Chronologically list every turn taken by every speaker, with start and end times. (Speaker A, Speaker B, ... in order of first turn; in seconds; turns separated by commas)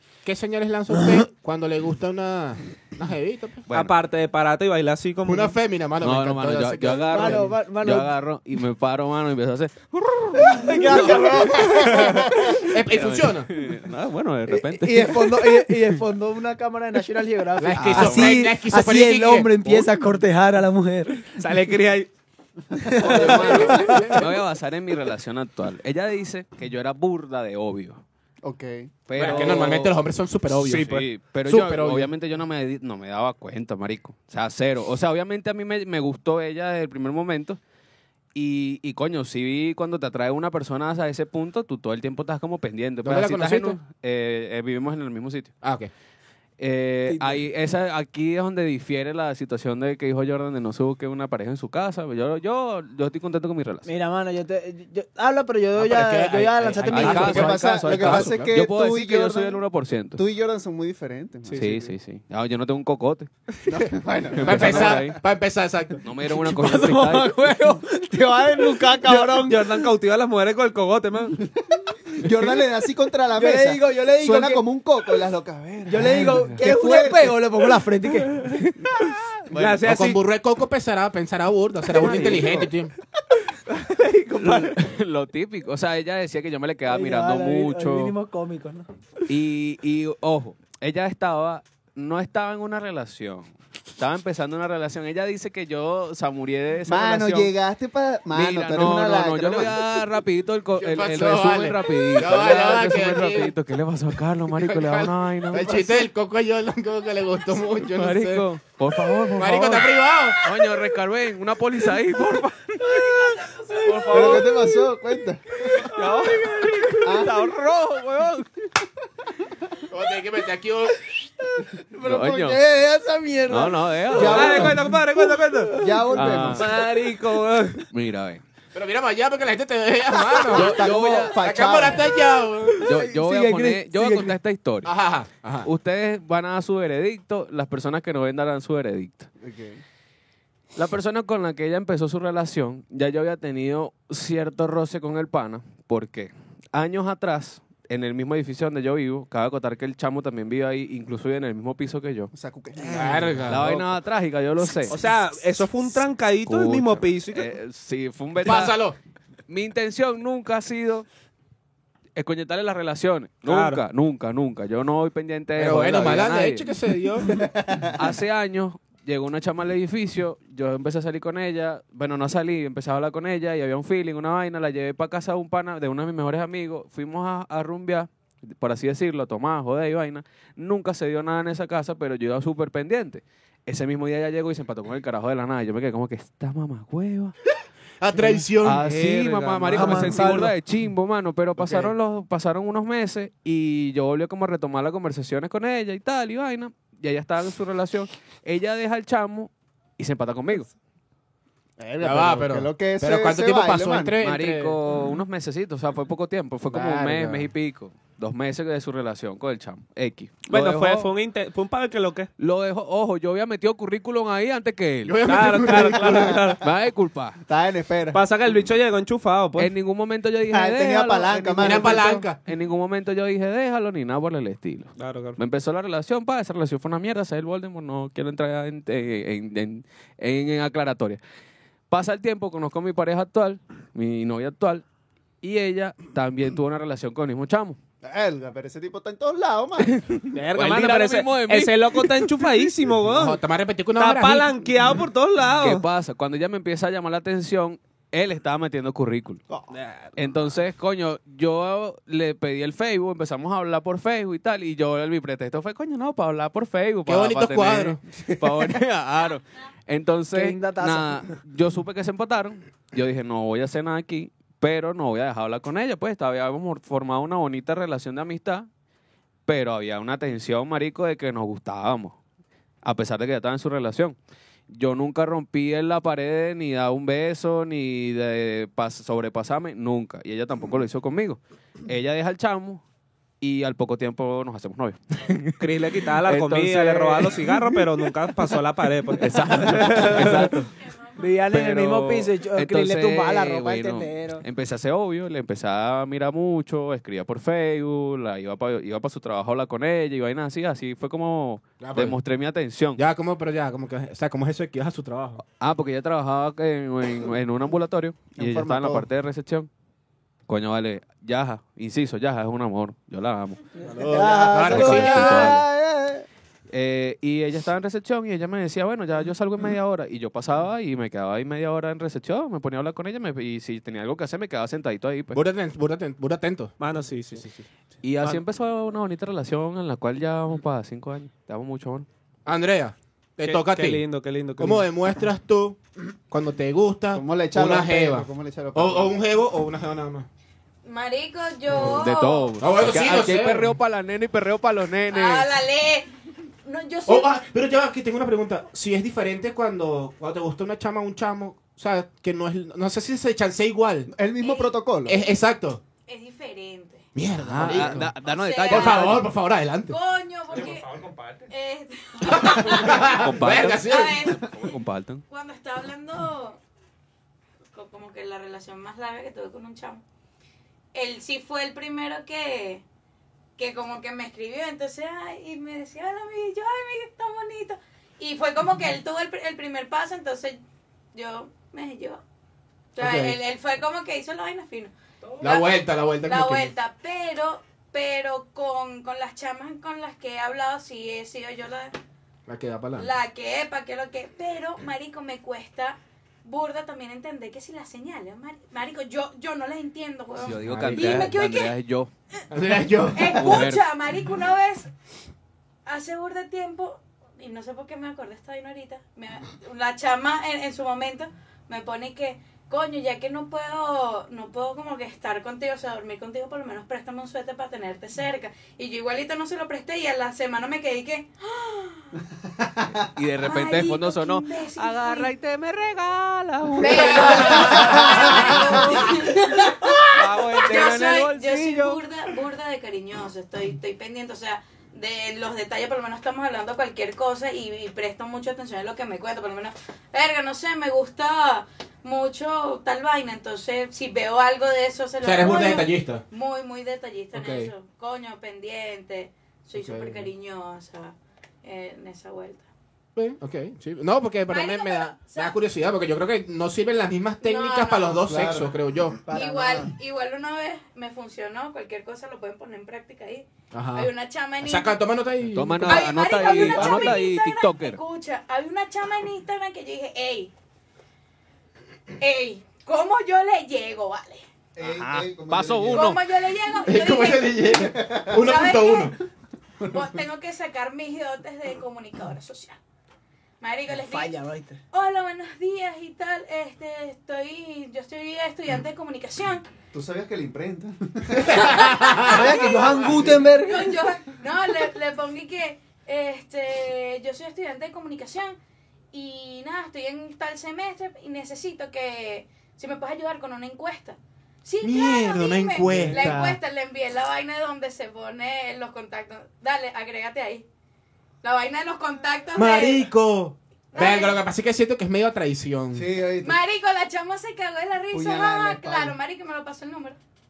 Speaker A: 0.2-3.7, Speaker B: 3.7-3.9, Speaker C: 3.7-5.6, Speaker A: 5.2-7.5, Speaker B: 6.0-12.0, Speaker D: 7.1-8.1, Speaker D: 10.5-12.5, Speaker A: 11.9-13.5, Speaker B: 12.8-15.8, Speaker D: 14.5-21.4, Speaker A: 17.6-19.6, Speaker B: 17.8-18.4, Speaker C: 21.3-22.1, Speaker E: 22.8-24.2, Speaker D: 22.8-24.2, Speaker B: 23.1-28.0, Speaker A: 23.4-24.2, Speaker E: 28.4-28.9, Speaker B: 29.1-30.0, Speaker A: 29.1-32.1, Speaker B: 30.6-37.6, Speaker C: 30.7-31.1, Speaker B: 38.3-45.6, Speaker A: 43.0-43.8, Speaker A: 45.6-45.9, Speaker B: 46.6-53.9, Speaker D: 47.1-47.4, Speaker D: 53.9-57.6, Speaker A: 55.8-58.5, Speaker B: 56.9-60.2, Speaker E: 57.1-59.6, Speaker E: 60.1-61.9, Speaker A: 61.5-61.8, Speaker B: 61.5-63.3, Speaker E: 63.7-65.2, Speaker B: 64.3-65.2, Speaker A: 64.4-66.0, Speaker B: 66.0-67.3, Speaker D: 66.3-69.7, Speaker C: 69.1-71.4, Speaker E: 71.5-77.4, Speaker D: 73.4-74.7, Speaker D: 75.9-78.5, Speaker A: 79.5-82.9, Speaker C: 79.5-80.2, Speaker E: 82.0-82.7, Speaker B: 82.0-82.3, Speaker C: 83.7-84.8, Speaker B: 84.4-88.1, Speaker D: 86.9-88.9, Speaker B: 89.3-97.5, Speaker E: 96.9-100.1, Speaker B: 98.3-105.9, Speaker A: 100.8-103.5, Speaker A: 104.5-108.5, Speaker E: 105.6-106.0, Speaker B: 107.9-113.3, Speaker A: 109.4-110.5, Speaker B: 113.8-114.5, Speaker D: 113.9-114.3, Speaker E: 114.1-115.8, Speaker B: 115.8-118.5, Speaker C: 115.9-117.3, Speaker E: 117.0-117.3, Speaker A: 119.9-121.3, Speaker D: 121.9-124.5, Speaker B: 122.0-122.6, Speaker B: 123.5-124.8, Speaker E: 124.1-125.0, Speaker C: 124.2-125.8, Speaker D: 125.7-126.2, Speaker E: 125.8-126.7, Speaker B: 126.2-126.7, Speaker C: 126.3-127.9, Speaker B: 127.9-128.4, Speaker A: 128.8-132.9, Speaker E: 130.4-132.1, Speaker B: 130.5-131.6, Speaker B: 132.8-134.9, Speaker D: 132.8-134.4, Speaker A: 134.8-135.7, Speaker B: 135.7-139.3, Speaker E: 139.4-139.8, Speaker B: 140.8-152.3, Speaker E: 152.3-153.9, Speaker A: 152.9-153.8, Speaker B: 152.9-155.0, Speaker C: 154.9-157.5, Speaker B: 156.4-158.8, Speaker A: 158.4-159.0, Speaker B: 159.5-161.1, Speaker B: 162.2-166.7, Speaker C: 163.5-163.8, Speaker A: 165.6-167.5, Speaker E: 167.4-167.9, Speaker B: 167.9-187.3, Speaker A: 188.0-188.9, Speaker B: 188.6-200.7, Speaker C: 188.8-190.4, Speaker D: 189.7-190.5, Speaker A: 191.6-191.9, Speaker E: 201.8-204.2, Speaker A: 202.0-204.8, Speaker B: 204.2-211.1, Speaker A: 206.7-207.5, Speaker C: 210.5-212.3, Speaker B: 212.4-215.8, Speaker A: 215.1-216.3, Speaker C: 215.3-216.6, Speaker E: 216.1-216.3, Speaker B: 216.6-217.4, Speaker E: 217.5-218.2, Speaker C: 218.1-219.7, Speaker B: 219.6-231.2, Speaker E: 220.5-222.3, Speaker A: 221.6-222.4, Speaker C: 225.0-225.4, Speaker B: 231.9-234.8, Speaker B: 235.4-237.8, Speaker E: 238.0-239.9, Speaker B: 239.8-242.3, Speaker C: 240.3-243.4, Speaker A: 243.1-244.6, Speaker C: 244.0-245.8, Speaker B: 245.6-249.4, Speaker C: 249.7-250.2, Speaker B: 250.2-268.7, Speaker A: 257.1-258.0, Speaker E: 258.5-258.7, Speaker D: 260.3-261.2, Speaker B: 269.5-272.2, Speaker B: 272.8-274.2, Speaker B: 274.7-282.8, Speaker B: 283.4-288.1, Speaker C: 285.6-290.6, Speaker B: 289.1-290.7, Speaker F: 290.9-291.3, Speaker D: 291.2-294.4, Speaker B: 291.5-303.0, Speaker A: 301.8-302.2, Speaker A: 303.0-305.4, Speaker B: 305.5-309.7, Speaker E: 308.4-309.1, Speaker B: 310.5-313.6, Speaker A: 313.9-315.6, Speaker E: 313.9-316.3, Speaker D: 314.0-315.3, Speaker B: 314.5-315.6, Speaker B: 316.7-325.4, Speaker A: 325.3-326.7, Speaker C: 326.8-327.5, Speaker A: 327.3-327.6, Speaker B: 328.0-332.1, Speaker A: 332.5-334.0, Speaker C: 333.4-334.9, Speaker A: 334.6-335.8, Speaker A: 336.3-340.3, Speaker E: 337.1-339.1, Speaker F: 340.9-342.5, Speaker B: 341.8-345.5, Speaker A: 342.6-343.8, Speaker F: 345.1-346.1, Speaker F: 346.6-347.4, Speaker A: 347.1-354.1, Speaker E: 354.1-355.2, Speaker F: 354.4-355.3, Speaker A: 355.1-355.8, Speaker F: 356.1-357.1, Speaker A: 357.1-358.1, Speaker B: 357.4-359.3, Speaker F: 358.2-359.3, Speaker A: 358.7-360.0, Speaker F: 359.9-360.9, Speaker C: 360.5-361.5, Speaker F: 361.5-364.7, Speaker A: 362.3-364.3, Speaker B: 363.0-365.2, Speaker F: 365.3-366.6, Speaker F: 367.7-370.0, Speaker F: 370.9-372.8, Speaker F: 373.6-380.6, Speaker F: 381.1-382.2, Speaker F: 383.0-391.9, Speaker A: 383.0-383.4, Speaker A: 385.4-386.7, Speaker A: 392.5-393.1, Speaker F: 392.9-401.8, Speaker B: 400.4-402.1, Speaker A: 400.6-401.2, Speaker A: 402.5-403.6, Speaker F: 403.1-404.9, Speaker B: 403.4-403.9, Speaker F: 405.9-422.1, Speaker E: 422.6-423.1, Speaker B: 423.2-429.1, Speaker F: 423.4-425.3, Speaker F: 426.8-452.7, Speaker A: 426.8-428.8, Speaker E: 427.5-429.0, Speaker B: 430.0-432.0, Speaker A: 445.2-446.2, Speaker A: 447.3-447.7, Speaker A: 449.8-450.3, Speaker A: 453.2-459.2, Speaker F: 454.5-455.6, Speaker F: 457.4-458.4, Speaker E: 458.3-458.8, Speaker D: 459.3-459.9, Speaker F: 459.3-465.0, Speaker A: 463.7-467.2, Speaker B: 465.5-468.0, Speaker F: 465.8-470.5, Speaker F: 472.2-474.4, Speaker E: 474.8-476.1, Speaker B: 474.8-476.2, Speaker F: 475.9-477.8, Speaker A: 476.8-479.2, Speaker E: 477.8-478.5, Speaker F: 478.4-479.2, Speaker F: 479.9-482.8, Speaker F: 483.6-484.4, Speaker D: 484.0-484.8, Speaker F: 484.9-489.7, Speaker E: 489.9-492.4, Speaker A: 491.7-492.3, Speaker F: 491.7-498.6, Speaker D: 492.1-493.9, Speaker E: 493.1-493.4, Speaker F: 499.1-510.6, Speaker A: 504.8-506.6, Speaker E: 505.8-506.4, Speaker F: 511.4-513.1, Speaker A: 512.6-516.1, Speaker F: 513.9-514.5, Speaker E: 515.9-516.6, Speaker F: 516.4-520.2, Speaker E: 518.1-519.2